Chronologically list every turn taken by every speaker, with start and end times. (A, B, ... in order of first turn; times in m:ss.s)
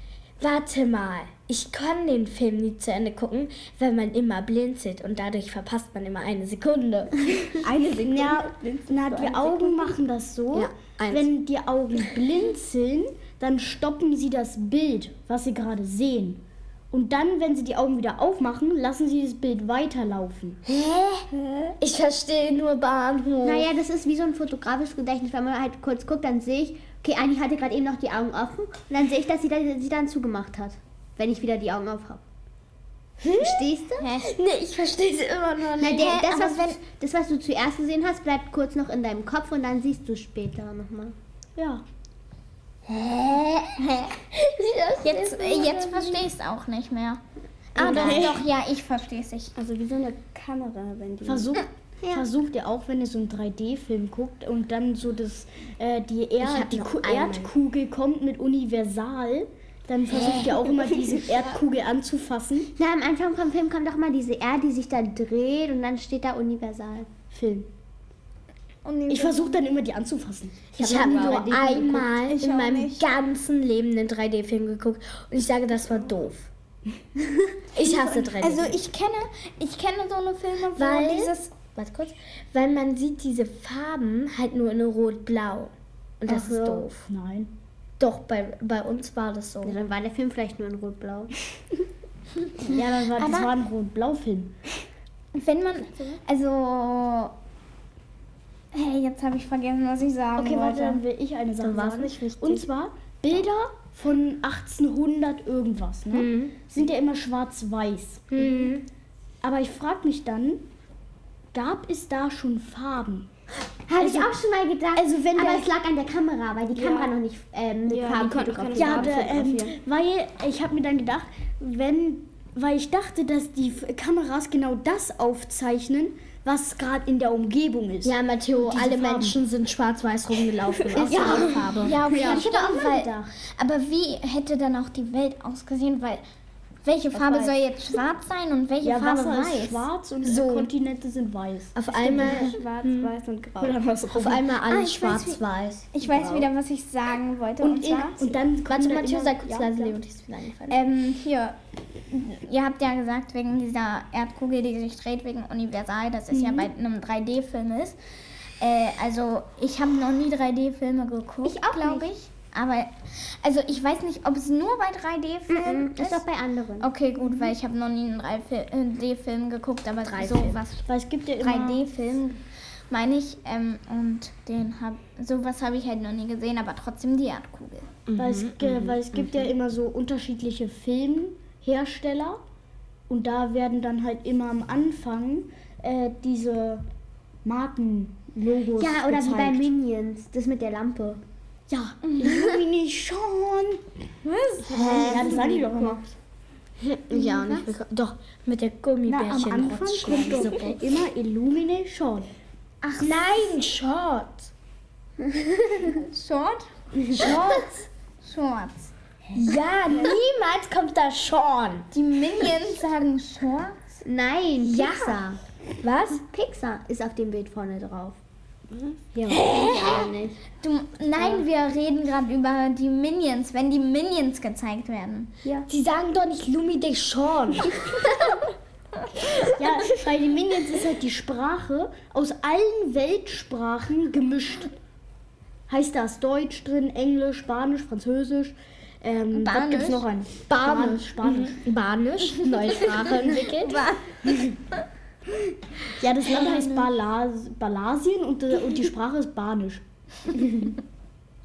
0:00.4-0:07.6 A
0:07.6-0:10.0 B
0:08.0-0:20.6 C
0:10.5-0:11.3 A
0:20.7-0:23.7 A
0:23.4-0:32.2 D
0:33.2-0:33.7 A
0:33.3-0:34.1 D
0:34.0-0:34.4 E
0:34.2-0:36.2 A
0:35.8-0:36.8 E
0:35.8-0:41.2 D
0:41.6-0:41.8 C
0:42.9-0:46.2 A
0:43.8-0:44.1 E
0:45.0-0:47.2 E
0:47.8-0:49.5 E
0:47.8-0:48.4 C
0:47.8-0:48.3 D
0:49.6-0:51.6 B
0:51.2-1:02.7 C
0:56.4-0:57.5 A
1:02.8-1:07.1 D
1:07.3-1:07.7 C
1:08.8-1:09.6 E
1:09.1-1:11.9 C
1:10.8-1:16.5 A
1:10.8-1:12.1 D
1:12.1-1:13.0 E
1:17.7-1:18.7 A
1:18.2-1:21.5 E
1:20.7-1:27.1 A
1:26.3-1:26.8 D
1:27.0-1:27.5 C
1:28.0-1:29.8 A
1:29.6-1:31.3 D
1:32.6-1:34.6 C
1:32.6-1:33.5 E
1:35.3-1:37.3 E
1:38.7-1:41.0 E
1:40.4-1:48.4 C
1:41.6-1:42.7 A
1:46.1-1:46.6 A
1:48.3-1:48.9 A
1:49.4-1:50.6 C
1:51.5-1:53.3 C
1:53.9-1:59.4 D
1:54.0-1:54.3 C
1:54.9-1:55.7 C
1:56.8-1:57.1 B
1:57.9-1:59.8 B
1:58.8-2:09.4 C
2:08.0-2:12.4 A
2:10.9-2:13.3 C
2:11.2-2:16.2 E
2:11.3-2:11.7 B
2:16.8-2:19.8 E
2:17.1-2:17.6 B
2:18.8-2:22.5 C
2:20.2-2:20.7 A
2:21.8-2:23.1 A
2:22.0-2:23.8 B
2:23.6-2:24.4 C
2:24.1-2:26.4 A
2:24.7-2:25.4 E
2:25.9-2:28.4 E
2:27.6-2:30.0 C
2:28.7-2:30.8 A
2:30.7-2:31.6 E
2:32.1-2:38.0 E
2:36.3-2:36.7 C
2:38.6-2:46.2 E
2:41.4-2:42.1 D
2:45.5-2:46.9 D
2:46.8-2:50.9 E
2:50.1-2:50.6 A
2:50.9-2:51.9 C
2:51.4-2:57.9 E
2:58.1-2:59.1 A
2:58.2-3:02.4 C
3:03.1-3:06.8 C
3:07.4-3:09.7 C
3:08.8-3:11.2 D
3:11.7-3:13.8 C
3:12.1-3:12.3 E
3:14.2-3:15.1 E
3:14.7-3:16.0 D
3:14.7-3:15.2 A
3:14.8-3:16.0 C
3:16.8-3:20.8 A
3:17.1-3:17.7 E
3:19.1-3:22.3 C
3:22.8-3:23.5 E
3:23.0-3:24.5 A
3:25.2-3:25.9 D
3:25.9-3:27.7 E
3:27.2-3:27.9 A
3:28.2-3:28.9 E
3:29.4-3:31.9 A
3:31.9-3:33.8 E
3:34.0-3:35.4 D
3:34.6-3:35.2 A
3:35.8-3:36.2 A
3:36.2-3:38.2 D
3:39.1-3:40.4 D
3:39.3-3:40.1 A
3:39.7-3:40.1 E
3:40.6-3:45.3 E
3:45.7-3:47.8 A
3:49.4-3:54.7 C
3:55.7-4:01.6 C
3:59.3-4:00.0 E
4:00.5-4:03.8 A
4:03.0-4:04.4 E
4:06.0-4:09.8 C
4:06.3-4:06.9 E
4:10.3-4:10.6 C